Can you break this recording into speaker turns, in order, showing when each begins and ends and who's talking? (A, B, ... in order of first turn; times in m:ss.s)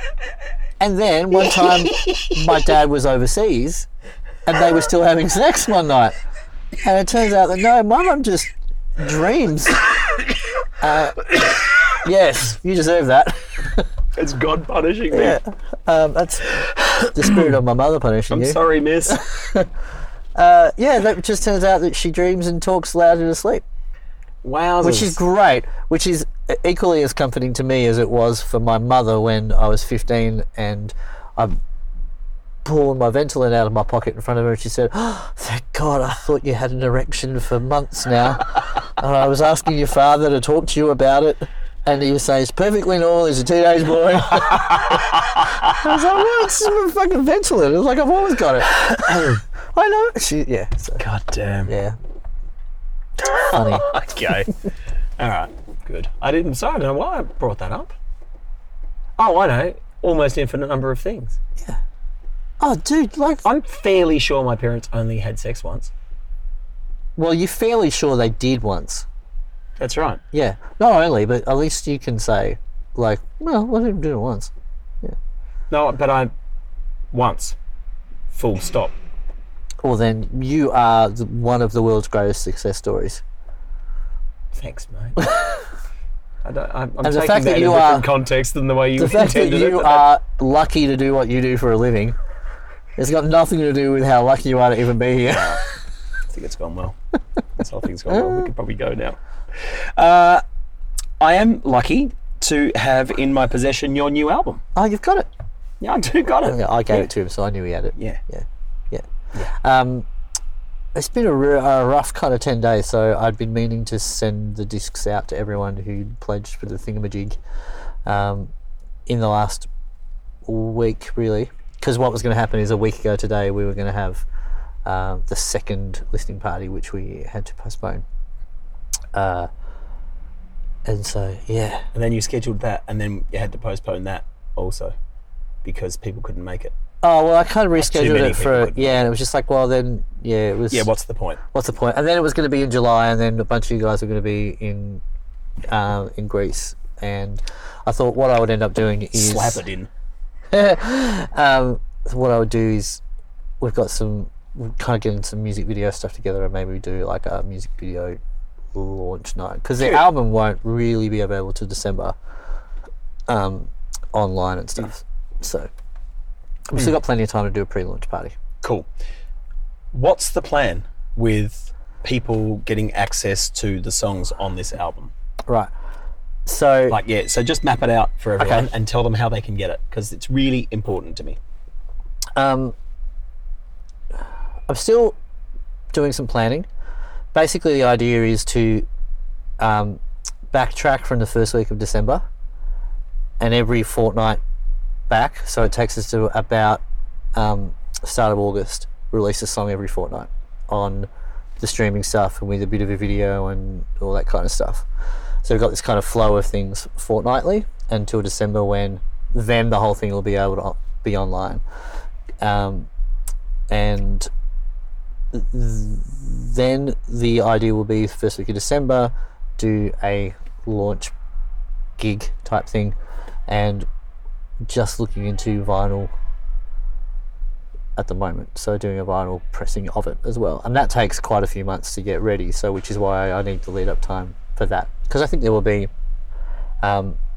0:00.8-0:03.9 A
0:01.5-0:02.3 B
0:04.4-0:06.2 A
0:06.8-0:09.8 A
0:10.8-0:11.3 A
0:11.9-0:13.9 A
0:14.1-0:15.4 B
0:15.1-0:19.7 A
0:16.6-0:17.5 B
0:18.3-0:19.2 B
0:20.3-0:23.6 A
0:24.4-0:25.2 B
0:24.8-0:31.6 A
0:32.6-0:51.0 A
0:44.5-0:45.8 B
0:48.8-0:49.4 B
0:51.0-0:51.7 B
0:51.7-0:52.0 A
0:53.2-0:54.6 B
0:53.4-0:54.0 A
0:55.2-0:58.0 B
0:59.2-1:01.4 B
1:02.6-1:03.4 A
1:03.4-1:05.9 B
1:07.2-1:09.0 A
1:09.8-1:10.2 B
1:10.3-1:15.2 A
1:15.7-1:16.3 B
1:17.1-1:17.6 B
1:18.3-1:18.9 B
1:19.8-1:23.2 A
1:24.5-1:25.2 B
1:25.2-1:25.6 A
1:26.4-1:30.0 B
1:27.0-1:28.1 A
1:29.0-1:32.2 A
1:33.0-1:35.6 A
1:35.3-1:35.6 B
1:36.3-1:37.0 B
1:37.6-1:40.4 B
1:38.1-1:38.5 A
1:41.2-1:44.6 B
1:44.7-1:45.3 A
1:45.8-1:47.1 B
1:46.4-1:50.1 A
1:50.9-1:57.4 A
1:58.0-1:58.5 A
1:59.1-1:59.7 A
2:00.4-2:04.2 A
2:04.8-2:08.0 A
2:09.1-2:09.5 A
2:10.8-2:11.9 A
2:11.9-2:14.9 B
2:15.6-2:16.8 B
2:17.0-2:20.9 A
2:17.8-2:19.0 B
2:20.7-2:21.4 B
2:21.5-2:25.0 A
2:25.7-2:29.6 A
2:29.1-2:29.9 B
2:30.5-2:33.0 A
2:33.6-2:38.2 A
2:38.7-2:42.2 A
2:39.8-2:40.0 B
2:43.3-2:45.7 A
2:46.7-2:48.4 A
2:48.6-2:48.9 B
2:49.9-2:55.1 B
2:55.5-2:55.7 A
2:56.4-2:57.0 A
2:56.9-3:01.4 B
2:58.4-2:58.7 A
3:02.3-3:02.7 A
3:04.7-3:05.2 A
3:05.9-3:06.7 A
3:07.3-3:08.8 A
3:09.6-3:12.2 A
3:13.4-3:14.4 A
3:15.1-3:16.8 A
3:17.3-3:24.9 A
3:25.4-3:31.6 A
3:32.4-3:32.9 A
3:33.7-3:34.3 A
3:35.3-3:41.1 A
3:42.0-3:43.0 A
3:43.5-3:43.9 A
3:44.6-3:46.1 A
3:48.0-3:55.9 A
3:56.8-3:57.2 A